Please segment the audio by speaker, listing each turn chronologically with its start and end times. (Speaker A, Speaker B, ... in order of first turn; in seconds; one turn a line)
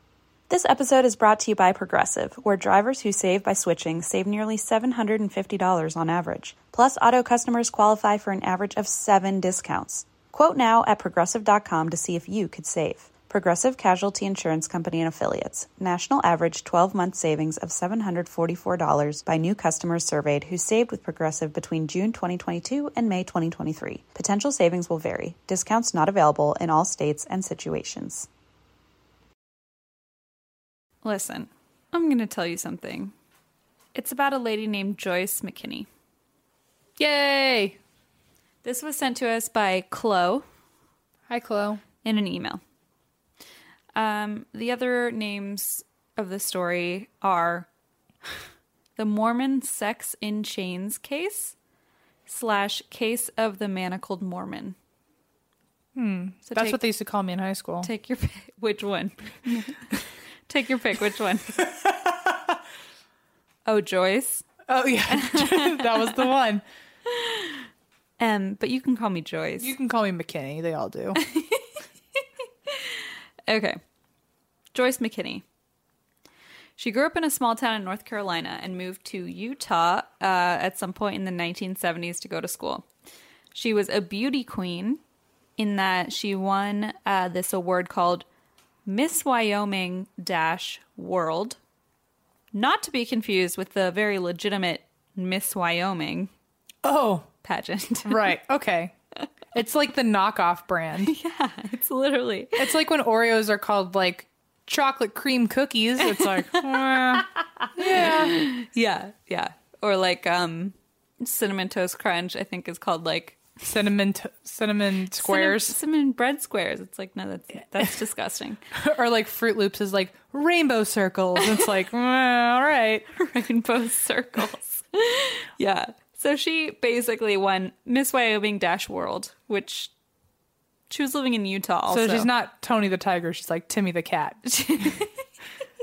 Speaker A: 0.5-28.3
Speaker B: 31.0-33.1
Speaker B: 33.9-35.9
Speaker C: 37.0-37.8
Speaker B: 38.6-40.4
Speaker C: 41.3-41.8
Speaker B: 42.0-42.6
Speaker B: 43.9-47.7
Speaker B: 49.0-51.5
Speaker B: 52.3-54.7
Speaker C: 56.0-57.9
Speaker B: 56.5-56.8
Speaker B: 57.8-61.6
Speaker B: 63.6-64.5
Speaker C: 64.7-66.6
Speaker B: 65.1-66.3
Speaker B: 67.1-67.6
Speaker B: 68.2-69.7
Speaker C: 69.6-71.2
Speaker B: 71.2-71.8
Speaker B: 72.7-73.8
Speaker B: 74.7-75.4
Speaker B: 76.8-82.8
Speaker B: 83.5-85.0
Speaker B: 85.6-88.2
Speaker B: 88.8-91.6
Speaker B: 92.5-96.3
Speaker C: 96.8-97.3
Speaker B: 97.4-98.3
Speaker C: 98.0-98.9
Speaker C: 99.5-101.1
Speaker B: 101.0-102.8
Speaker C: 102.6-108.3
Speaker B: 106.0-113.4
Speaker C: 113.6-115.8
Speaker B: 115.2-118.6
Speaker C: 118.7-123.0
Speaker B: 121.4-121.7
Speaker B: 123.1-129.9
Speaker B: 130.9-132.3
Speaker C: 131.9-134.9
Speaker B: 134.5-135.1